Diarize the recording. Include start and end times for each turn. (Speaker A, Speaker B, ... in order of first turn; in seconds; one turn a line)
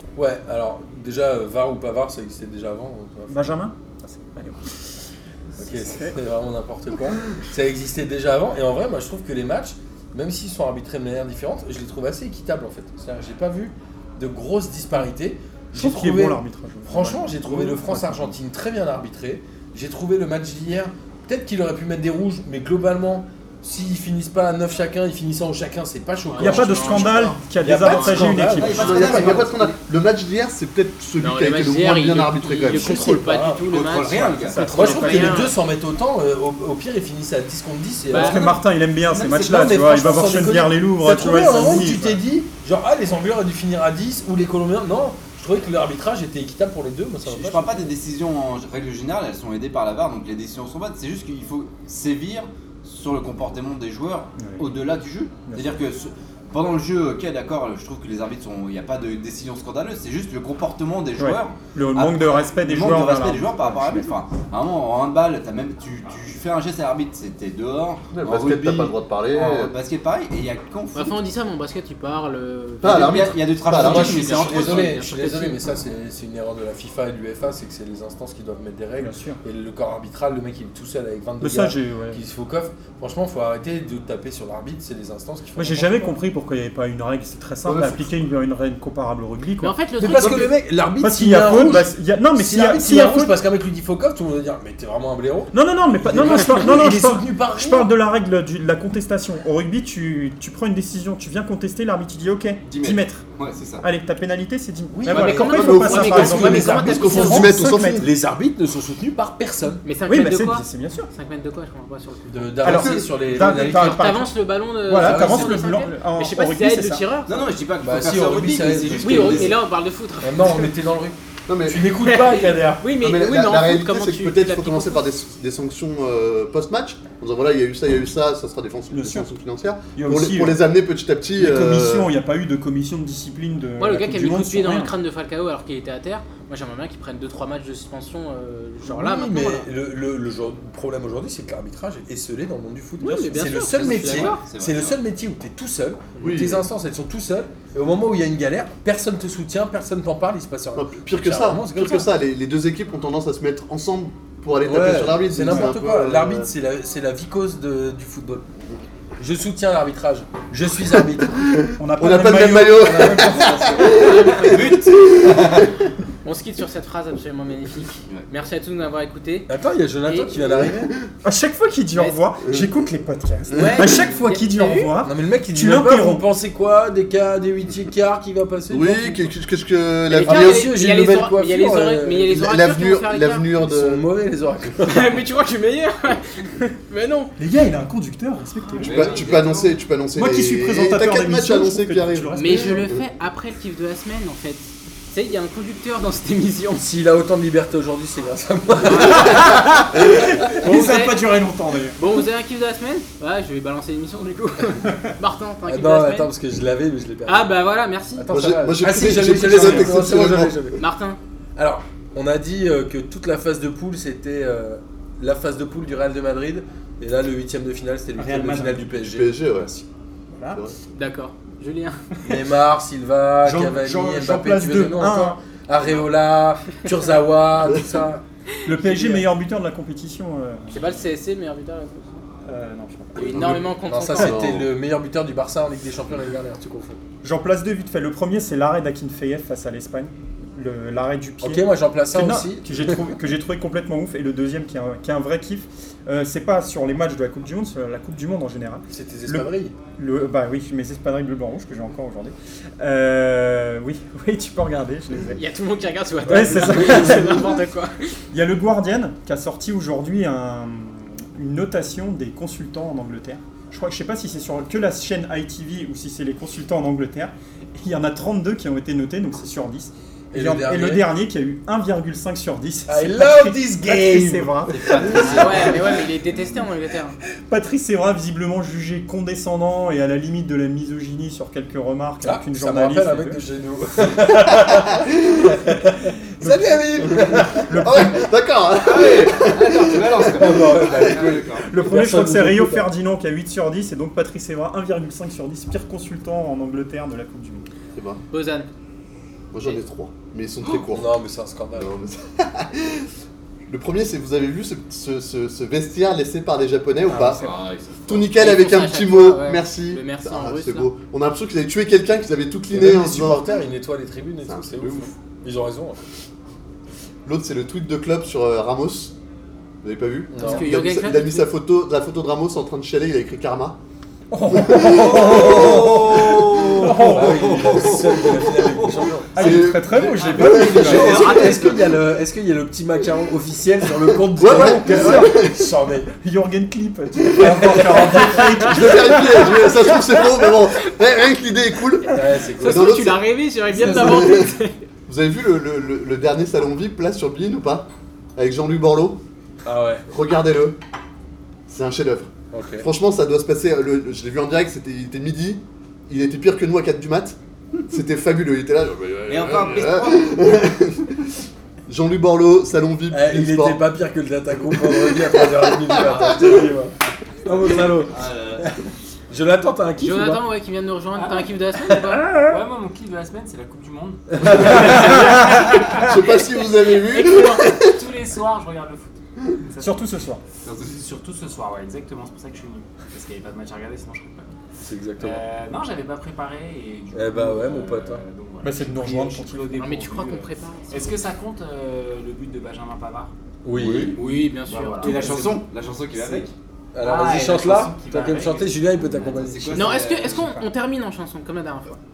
Speaker A: 0.1-3.5
Speaker B: 3.3-4.8
Speaker B: 5.6-6.2
Speaker A: 5.6-29.4
Speaker B: 15.7-18.3
Speaker C: 26.3-27.4
Speaker B: 26.4-29.4
Speaker D: 28.4-29.8
Speaker E: 28.7-33.2
Speaker C: 31.2-35.5
Speaker A: 32.7-33.6
Speaker D: 33.6-34.9
Speaker B: 34.5-35.5
Speaker A: 34.6-38.5
Speaker C: 38.1-38.5
Speaker B: 38.1-42.2
Speaker D: 39.0-40.2
Speaker A: 39.3-47.9
Speaker D: 47.3-71.2
Speaker B: 54.4-54.6
Speaker B: 55.5-55.8
Speaker B: 61.2-64.0
Speaker E: 68.1-69.7
Speaker C: 70.9-73.2
Speaker E: 72.8-74.3
Speaker D: 72.8-75.0
Speaker A: 73.7-86.1
Speaker C: 73.8-75.6
Speaker B: 79.0-79.4
Speaker B: 81.4-82.2
Speaker B: 85.5-90.5
Speaker E: 87.6-88.1
Speaker C: 89.6-90.5
Speaker A: 90.0-97.9
Speaker B: 91.0-93.4
Speaker B: 95.5-103.2
Speaker D: 102.7-103.8
Speaker B: 103.8-108.0
Speaker A: 104.9-109.8
Speaker C: 105.1-107.6
Speaker D: 105.1-105.4
Speaker E: 105.2-108.0
Speaker C: 109.8-112.6
Speaker B: 110.1-111.1
Speaker A: 112.3-114.1
Speaker B: 112.6-117.0
Speaker E: 112.7-113.0
Speaker C: 113.5-117.5
Speaker A: 114.9-115.6
Speaker D: 117.3-119.6
Speaker A: 117.8-119.6
Speaker C: 119.0-120.7
Speaker A: 120.2-122.9
Speaker E: 121.5-121.8
Speaker C: 122.0-125.0
Speaker E: 123.0-132.1
Speaker B: 128.9-129.3
Speaker B: 129.9-130.6
Speaker B: 131.4-134.9
Speaker C: 133.8-139.7
Speaker A: 138.8-152.1
Speaker C: 143.0-144.4
Speaker D: 143.7-145.0
Speaker E: 146.2-146.7
Speaker E: 150.8-156.5
Speaker A: 154.6-158.4
Speaker B: 155.4-155.7
Speaker A: 159.2-161.4
Speaker E: 161.5-165.7
Speaker B: 161.8-164.1
Speaker A: 162.9-163.3
Speaker C: 163.8-164.8
Speaker D: 164.3-165.7
Speaker C: 166.2-169.5
Speaker A: 169.5-170.9
Speaker C: 170.1-170.4
Speaker E: 170.4-170.9
Speaker B: 171.2-176.2
Speaker C: 173.5-174.9
Speaker A: 175.0-179.2
Speaker E: 178.7-180.7
Speaker C: 180.1-183.5
Speaker A: 180.2-182.3
Speaker E: 182.3-184.0
Speaker A: 183.6-185.2
Speaker C: 184.8-187.3
Speaker B: 187.4-189.2
Speaker D: 188.8-189.8
Speaker E: 188.9-193.0
Speaker B: 190.2-192.9
Speaker C: 192.3-196.8
Speaker A: 196.8-199.6
Speaker C: 198.9-199.8
Speaker B: 199.1-202.0
Speaker C: 200.6-201.3
Speaker C: 202.0-206.3
Speaker A: 205.7-207.5
Speaker C: 207.2-208.3
Speaker A: 208.2-210.8
Speaker E: 208.3-210.6
Speaker B: 209.2-210.0
Speaker C: 210.8-211.2
Speaker A: 211.6-219.4
Speaker B: 218.2-220.6
Speaker E: 219.1-219.7
Speaker C: 220.9-222.3
Speaker A: 222.2-228.2
Speaker B: 223.4-225.4
Speaker B: 228.6-231.0
Speaker A: 228.8-229.2
Speaker C: 230.7-232.2
Speaker B: 232.4-233.6
Speaker A: 233.2-237.0
Speaker C: 233.2-234.5
Speaker E: 234.1-234.7
Speaker B: 237.2-255.4
Speaker A: 241.4-243.1
Speaker A: 248.9-249.7
Speaker C: 255.3-258.1
Speaker B: 256.2-257.6
Speaker A: 256.3-257.3
Speaker B: 258.3-275.3
Speaker A: 270.3-271.1
Speaker A: 272.9-275.2
Speaker D: 274.7-276.4
Speaker C: 275.1-277.1
Speaker B: 277.5-283.4
Speaker A: 282.2-288.1
Speaker B: 286.4-288.2
Speaker E: 287.1-290.7
Speaker D: 288.8-291.8
Speaker A: 290.2-292.9
Speaker B: 291.6-297.7
Speaker E: 297.9-298.2
Speaker C: 298.3-298.7
Speaker E: 299.5-301.1
Speaker A: 300.9-301.9
Speaker E: 301.8-303.1
Speaker E: 303.7-307.5
Speaker D: 307.1-308.3
Speaker B: 307.1-307.5
Speaker E: 308.1-313.6
Speaker C: 308.3-310.9
Speaker A: 312.7-316.0
Speaker E: 314.4-315.1
Speaker E: 317.2-319.1
Speaker E: 319.8-323.8
Speaker A: 320.3-320.6
Speaker C: 320.4-321.5
Speaker B: 324.3-328.0
Speaker E: 324.5-325.6
Speaker D: 324.7-329.2
Speaker A: 326.8-336.1
Speaker E: 329.1-331.9
Speaker B: 329.3-331.3
Speaker D: 330.2-331.9
Speaker E: 333.9-335.7
Speaker B: 334.4-335.5
Speaker B: 336.2-340.1
Speaker A: 337.4-338.7
Speaker E: 337.4-344.5
Speaker A: 342.1-343.0
Speaker C: 342.6-344.8
Speaker E: 345.1-349.2
Speaker A: 349.6-350.0
Speaker E: 350.1-350.8
Speaker E: 351.7-357.4
Speaker A: 352.5-352.9
Speaker E: 357.9-361.2
Speaker D: 359.3-360.4
Speaker E: 361.9-363.8
Speaker A: 363.1-366.9
Speaker E: 364.7-366.7
Speaker A: 367.4-370.4
Speaker D: 368.1-368.7
Speaker C: 370.0-372.2
Speaker F: 371.1-371.6
Speaker A: 371.9-372.3
Speaker F: 372.3-376.1
Speaker A: 374.3-375.3
Speaker E: 374.5-377.9
Speaker C: 376.9-377.8
Speaker F: 377.7-380.1
Speaker B: 379.8-380.4
Speaker F: 380.7-384.5
Speaker A: 384.8-385.4
Speaker F: 385.2-393.3
Speaker A: 387.1-388.2
Speaker B: 388.6-389.8
Speaker C: 389.8-391.3
Speaker A: 393.6-394.2
Speaker E: 393.7-394.2
Speaker C: 394.2-395.6
Speaker F: 394.2-395.5
Speaker D: 395.0-396.5
Speaker F: 396.1-396.4
Speaker A: 396.9-399.9
Speaker F: 397.0-399.0
Speaker D: 399.1-400.5
Speaker C: 399.7-401.9
Speaker B: 400.3-400.6